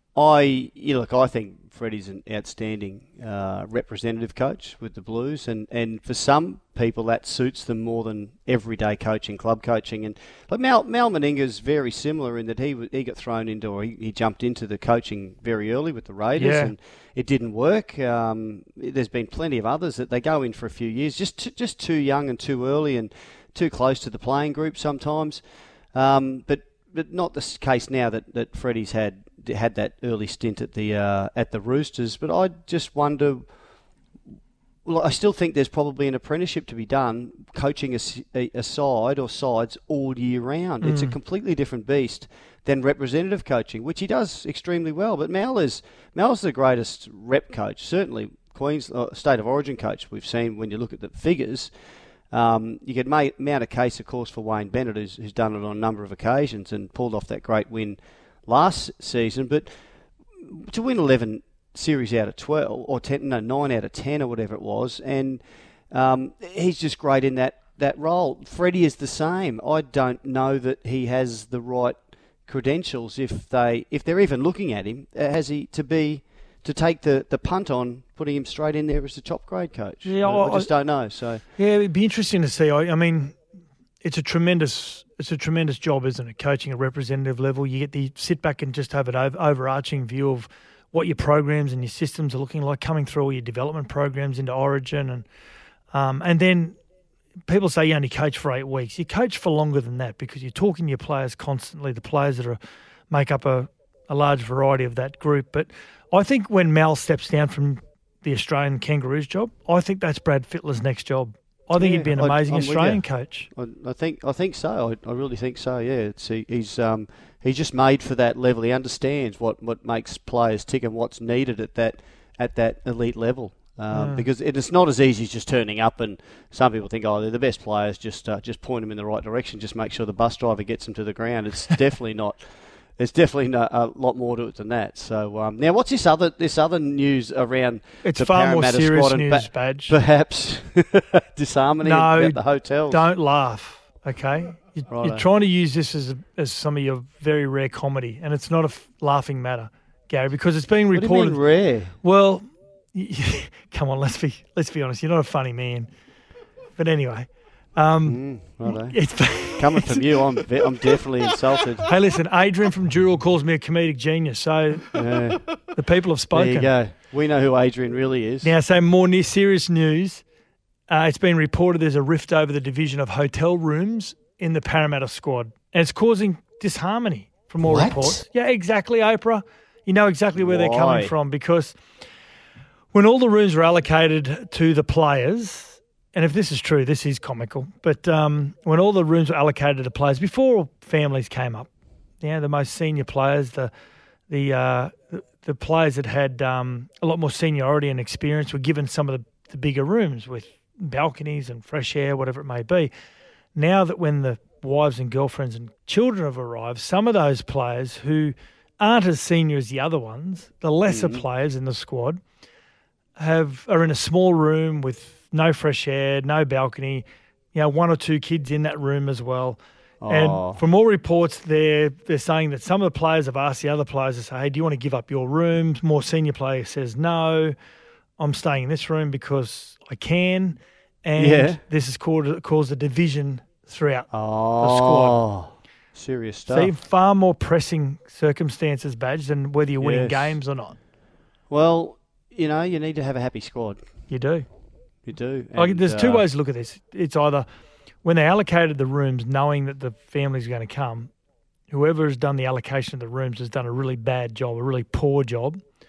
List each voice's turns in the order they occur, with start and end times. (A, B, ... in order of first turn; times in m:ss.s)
0:00.1-0:33.6 A
0:16.3-0:16.7 B
0:34.8-1:21.4 A
0:40.8-0:41.2 B
1:20.0-1:23.4 B
1:24.0-1:35.2 B
1:35.9-1:36.8 B
1:37.5-1:42.6 B
1:43.1-1:53.5 B
1:51.7-2:23.1 A
2:03.9-2:04.3 B
2:18.0-2:20.0 B
2:21.8-2:35.9 B
2:24.9-2:25.2 A
2:30.9-2:32.0 A
2:36.8-2:40.0 B
2:38.0-2:41.9 A
2:41.9-2:44.9 B
2:44.9-2:45.6 A
2:45.7-2:46.7 B
2:46.3-2:48.5 A
2:48.4-2:50.2 B
2:50.9-3:01.8 B
2:57.6-2:58.2 A
3:00.3-3:01.1 A
3:02.9-3:11.7 B
3:12.2-3:13.7 B
3:14.3-3:22.9 B
3:23.5-3:32.2 B
3:30.9-3:31.2 A
3:33.2-3:47.5 B
3:40.0-3:40.6 A
3:48.2-3:55.2 B
3:51.2-3:51.6 A
3:54.1-3:56.7 A
3:56.5-4:00.8 B
3:59.8-4:00.4 A
4:01.5-4:03.8 A
4:04.1-4:04.5 B
4:05.0-4:06.2 A
4:05.5-4:07.5 B
4:08.0-4:11.1 B
4:11.7-4:15.6 B